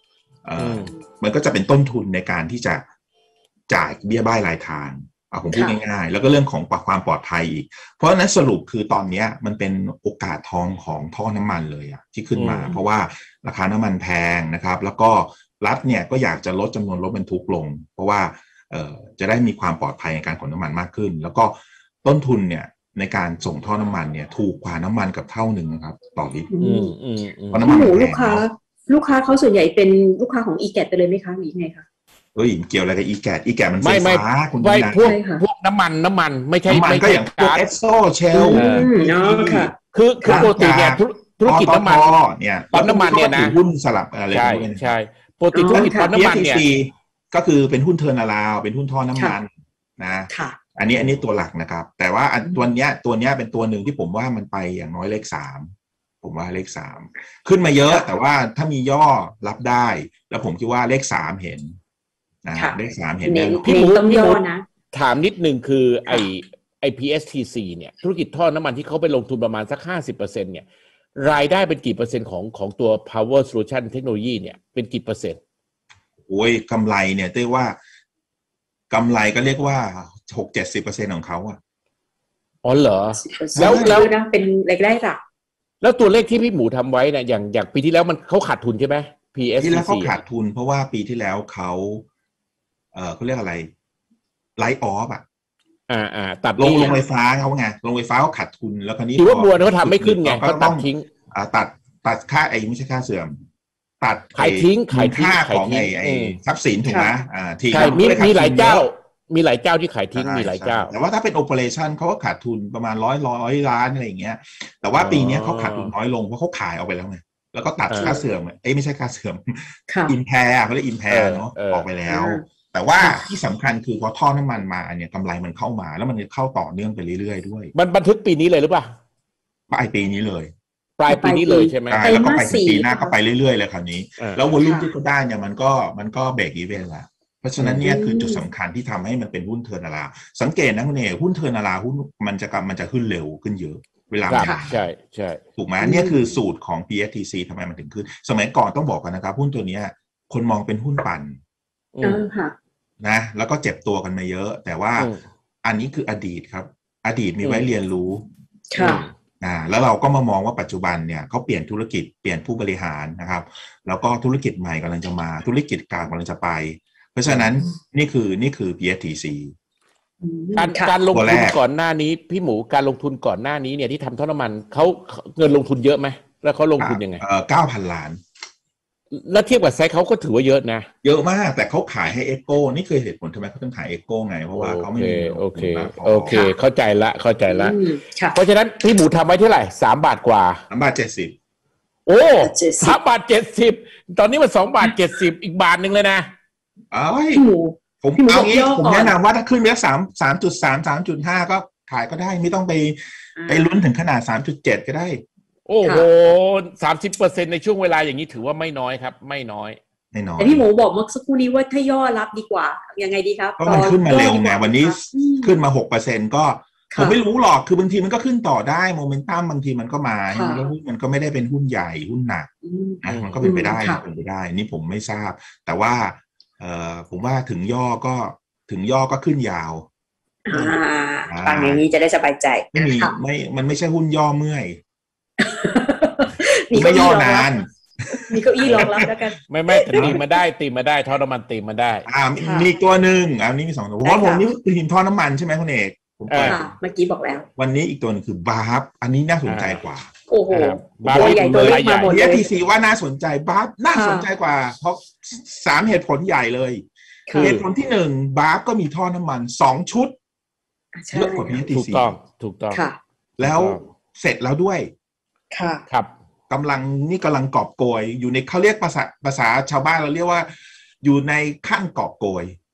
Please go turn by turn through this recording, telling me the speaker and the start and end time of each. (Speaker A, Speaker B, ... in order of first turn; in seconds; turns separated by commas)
Speaker A: 0.4-2.9, Speaker B: 0.6-0.9, Speaker A: 3.7-26.5, Speaker C: 5.5-5.8, Speaker B: 12.3-12.8, Speaker C: 26.5-26.9, Speaker B: 26.6-27.7, Speaker A: 27.5-28.4, Speaker C: 27.6-31.9, Speaker A: 32.4-35.1, Speaker B: 33.8-37.6, Speaker C: 35.0-35.4, Speaker A: 36.7-39.7, Speaker C: 38.3-39.8, Speaker B: 38.5-38.9, Speaker B: 39.9-42.1, Speaker A: 40.2-44.9, Speaker B: 42.7-43.6, Speaker B: 44.3-46.6, Speaker C: 45.5-46.1, Speaker A: 45.7-55.7, Speaker C: 50.3-50.6, Speaker A: 56.2-61.8, Speaker A: 62.4-63.8, Speaker C: 62.5-64.6, Speaker B: 63.6-64.4, Speaker B: 64.9-70.6, Speaker B: 71.2-75.4, Speaker A: 76.3-77.8, Speaker A: 78.9-81.6, Speaker B: 82.6-84.1, Speaker C: 83.2-85.2, Speaker A: 83.6-84.1, Speaker B: 85.8-90.2, Speaker A: 89.6-92.0, Speaker A: 92.9-93.7, Speaker A: 94.6-95.2, Speaker B: 95.9-97.0, Speaker A: 96.6-103.4, Speaker B: 99.2-101.1, Speaker A: 104.0-108.9, Speaker B: 104.4-106.4, Speaker C: 106.9-107.1, Speaker B: 107.7-110.9, Speaker A: 110.1-127.7, Speaker B: 115.0-115.9, Speaker B: 117.9-118.2, Speaker C: 119.9-120.1, Speaker B: 121.1-121.9, Speaker C: 122.1-122.4, Speaker C: 123.0-123.2, Speaker B: 127.8-128.9, Speaker A: 129.7-130.5, Speaker B: 131.0-132.1, Speaker C: 131.1-133.1, Speaker A: 131.9-144.8, Speaker C: 134.6-134.9, Speaker B: 137.6-137.9, Speaker C: 137.8-138.4, Speaker B: 144.3-145.4, Speaker A: 145.6-151.4, Speaker C: 145.8-146.2, Speaker B: 151.9-152.2, Speaker C: 152.0-152.5, Speaker A: 153.0-155.1, Speaker B: 154.9-155.2, Speaker A: 155.6-158.2, Speaker C: 158.7-159.0, Speaker B: 158.8-159.1, Speaker A: 159.4-169.5, Speaker B: 167.2-167.6, Speaker C: 170.2-170.9, Speaker B: 170.6-177.2, Speaker A: 171.1-171.6, Speaker A: 176.8-178.2, Speaker B: 179.1-180.9, Speaker A: 181.0-186.4, Speaker B: 184.5-187.8, Speaker C: 187.5-188.4, Speaker B: 188.3-190.6, Speaker A: 190.7-191.3, Speaker B: 192.1-196.3, Speaker C: 192.4-192.9, Speaker A: 196.9-197.4, Speaker C: 197.3-199.2, Speaker A: 198.0-205.2, Speaker C: 203.4-203.7, Speaker B: 205.7-209.8, Speaker A: 210.1-210.6, Speaker C: 210.4-215.6, Speaker A: 213.6-222.5, Speaker C: 220.3-220.7, Speaker C: 222.6-224.0, Speaker A: 223.0-229.9, Speaker B: 223.0-223.4, Speaker C: 230.4-233.1, Speaker A: 231.3-231.8, Speaker A: 232.7-234.8, Speaker C: 235.4-237.5, Speaker A: 236.7-239.3, Speaker C: 238.1-240.1, Speaker B: 238.6-238.9, Speaker B: 239.5-242.1, Speaker A: 239.9-240.2, Speaker A: 242.1-246.7, Speaker C: 242.4-242.7, Speaker C: 244.0-244.5, Speaker B: 246.3-246.6, Speaker C: 246.5-247.5, Speaker A: 247.6-250.1, Speaker B: 249.4-249.8, Speaker C: 250.3-252.5, Speaker B: 250.5-252.1, Speaker A: 251.0-260.1, Speaker C: 253.9-254.3, Speaker C: 257.3-257.6, Speaker C: 260.9-261.6, Speaker A: 261.1-262.1, Speaker B: 261.7-262.8, Speaker C: 262.7-263.0, Speaker B: 263.4-263.8, Speaker A: 263.4-264.9, Speaker C: 265.5-265.8, Speaker A: 266.5-270.5, Speaker A: 271.0-272.6